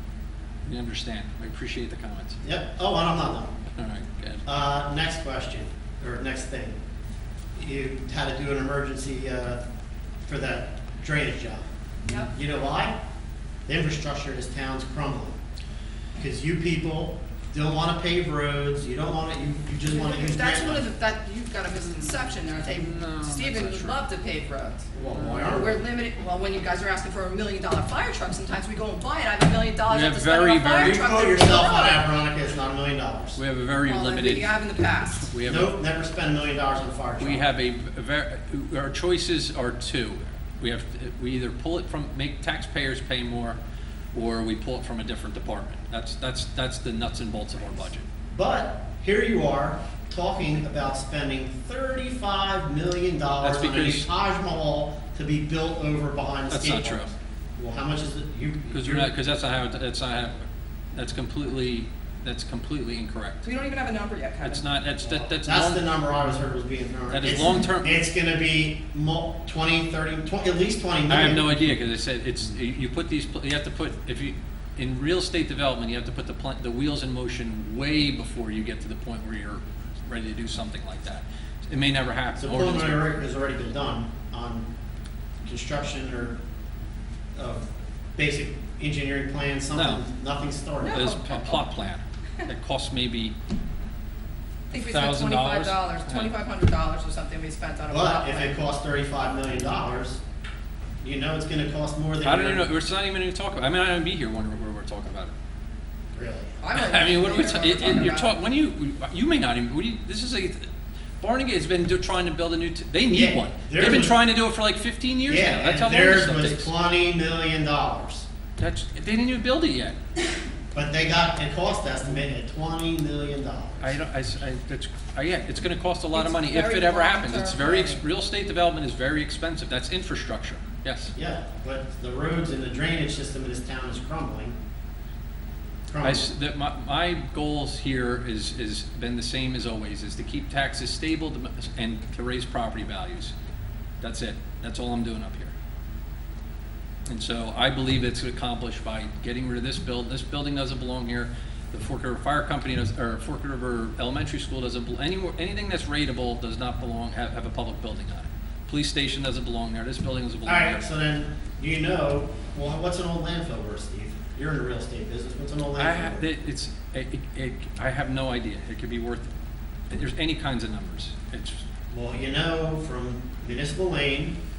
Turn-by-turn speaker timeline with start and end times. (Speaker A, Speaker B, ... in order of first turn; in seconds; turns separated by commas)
Speaker A: 0.7-2.4, Speaker B: 2.4-3.5, Speaker A: 3.8-4.4, Speaker B: 4.4-6.8, Speaker B: 7.5-9.6, Speaker B: 10.3-11.6, Speaker C: 12.1-12.3, Speaker B: 12.2-13.0, Speaker B: 13.7-15.4, Speaker B: 16.2-20.9, Speaker C: 19.9-24.9, Speaker A: 22.6-24.0, Speaker B: 24.9-25.8, Speaker A: 25.1-25.6, Speaker C: 25.5-32.0, Speaker A: 29.9-31.0, Speaker B: 30.8-33.4, Speaker A: 33.4-34.5, Speaker C: 33.8-35.3, Speaker A: 35.2-35.7, Speaker B: 35.4-37.5, Speaker A: 37.2-43.6, Speaker A: 44.1-48.0, Speaker B: 48.3-59.1, Speaker A: 53.4-54.1, Speaker A: 56.5-57.1, Speaker A: 58.7-60.4, Speaker A: 60.9-63.4, Speaker C: 63.4-64.7, Speaker A: 64.4-65.9, Speaker B: 65.3-71.7, Speaker A: 67.1-67.9, Speaker A: 71.1-83.1, Speaker B: 82.4-84.7, Speaker B: 85.4-86.4, Speaker B: 87.3-91.2, Speaker A: 89.7-90.0, Speaker C: 90.8-91.6, Speaker A: 90.8-93.3, Speaker C: 94.7-98.5, Speaker A: 94.7-96.3, Speaker B: 97.9-100.2, Speaker B: 101.0-102.7, Speaker A: 102.2-105.3, Speaker B: 106.1-106.6, Speaker C: 106.6-108.3, Speaker A: 106.7-110.6, Speaker A: 111.2-116.7, Speaker B: 113.1-114.2, Speaker B: 115.3-118.3, Speaker A: 118.6-120.0, Speaker B: 120.7-124.0, Speaker A: 123.8-131.1, Speaker C: 126.1-128.0, Speaker B: 131.1-134.6, Speaker B: 135.9-136.3, Speaker A: 136.0-143.3, Speaker A: 144.0-145.5, Speaker A: 147.1-160.8, Speaker B: 160.4-166.3, Speaker A: 165.8-169.3, Speaker A: 169.9-171.6, Speaker B: 171.9-174.4